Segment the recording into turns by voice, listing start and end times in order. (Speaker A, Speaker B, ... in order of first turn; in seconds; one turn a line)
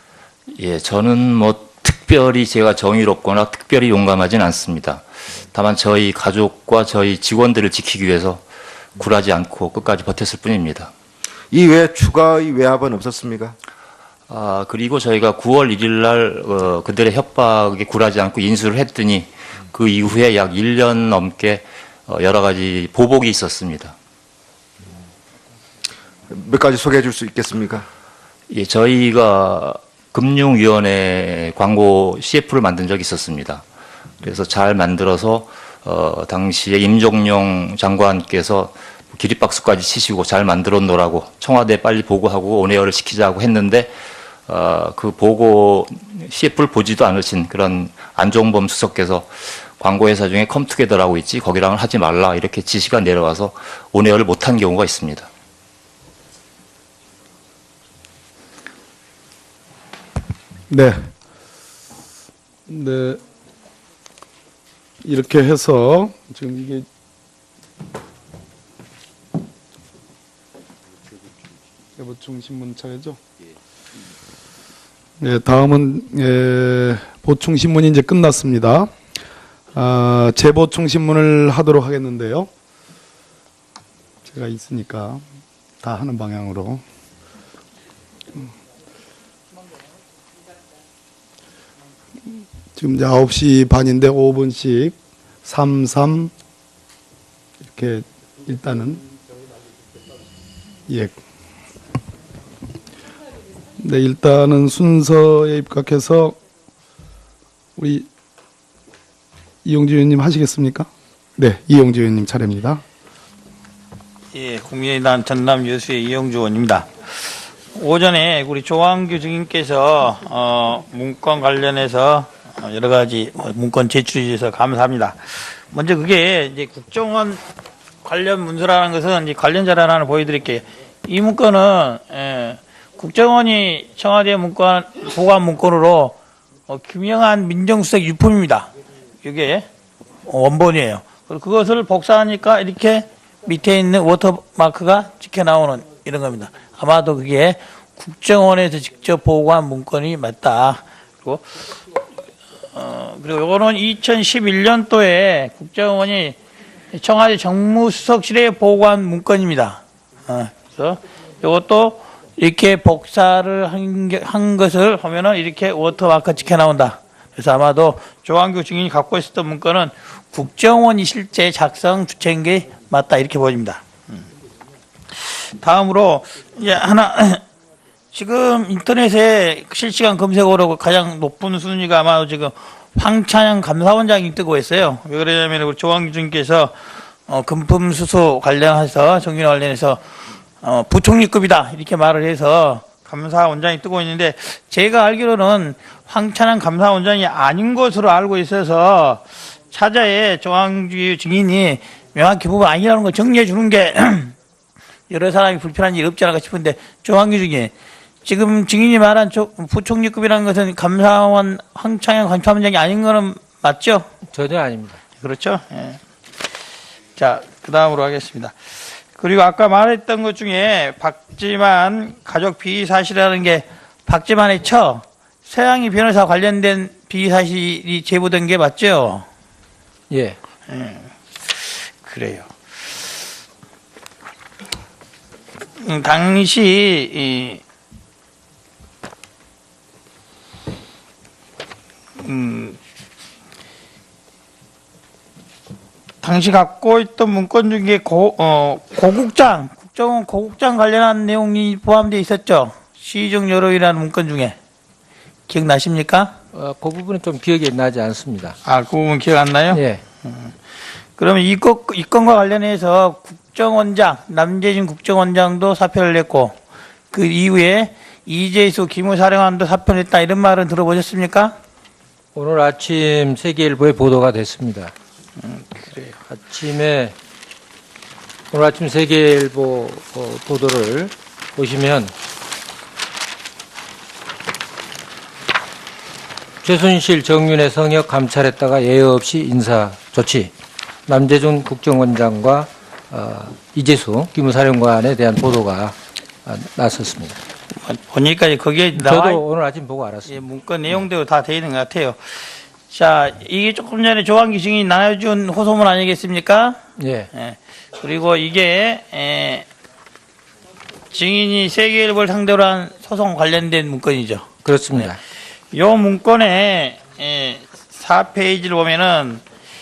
Speaker A: 0.5-8.4
Speaker A: 9.0-10.9
Speaker B: 11.5-13.6
Speaker A: 14.3-24.0
Speaker B: 26.3-27.9
Speaker A: 28.5-33.6
Speaker A: 34.2-43.9
Speaker A: 44.5-55.3
Speaker C: 60.7-61.1
Speaker C: 62.7-63.2
Speaker C: 65.0-66.9
Speaker C: 72.0-73.2
Speaker C: 75.2-78.9
Speaker C: 79.7-82.5
Speaker C: 84.3-85.2
Speaker C: 85.8-86.8
Speaker C: 92.7-96.3
Speaker C: 97.7-99.0
Speaker C: 100.9-101.2
Speaker C: 103.8-106.4
Speaker C: 107.8-108.1
Speaker C: 109.7-112.8
Speaker D: 114.3-127.4
Speaker D: 128.0-136.2
Speaker D: 136.7-138.7
Speaker D: 139.2-139.7
Speaker D: 140.3-151.5
Speaker D: 152.7-156.4
Speaker D: 156.9-174.2
Speaker D: 175.2-177.4
Speaker D: 178.1-190.0
Speaker D: 190.6-204.3
Speaker D: 205.1-207.7
Speaker D: 208.2-214.1
Speaker E: 214.2-215.0
Speaker D: 215.2-216.0
Speaker D: 217.2-229.3
Speaker E: 230.1-230.4
Speaker D: 230.7-232.5
Speaker D: 235.8-237.6
Speaker D: 242.2-242.8
Speaker D: 246.2-254.6
Speaker D: 255.5-256.4
Speaker E: 256.5-258.6
Speaker D: 258.6-260.5
Speaker E: 259.7-260.0
Speaker D: 261.2-266.6
Speaker D: 267.1-271.6
Speaker E: 272.4-274.9
Speaker D: 275.4-276.1
Speaker E: 276.2-277.1
Speaker E: 278.5-282.1
Speaker E: 286.6-290.5
Speaker E: 291.1-297.4
Speaker D: 297.8-299.4
Speaker E: 298.9-300.4
Speaker D: 300.3-306.8
Speaker E: 307.0-307.3
Speaker D: 307.3-309.7
Speaker D: 311.1-315.1
Speaker E: 314.6-315.2
Speaker D: 315.7-319.4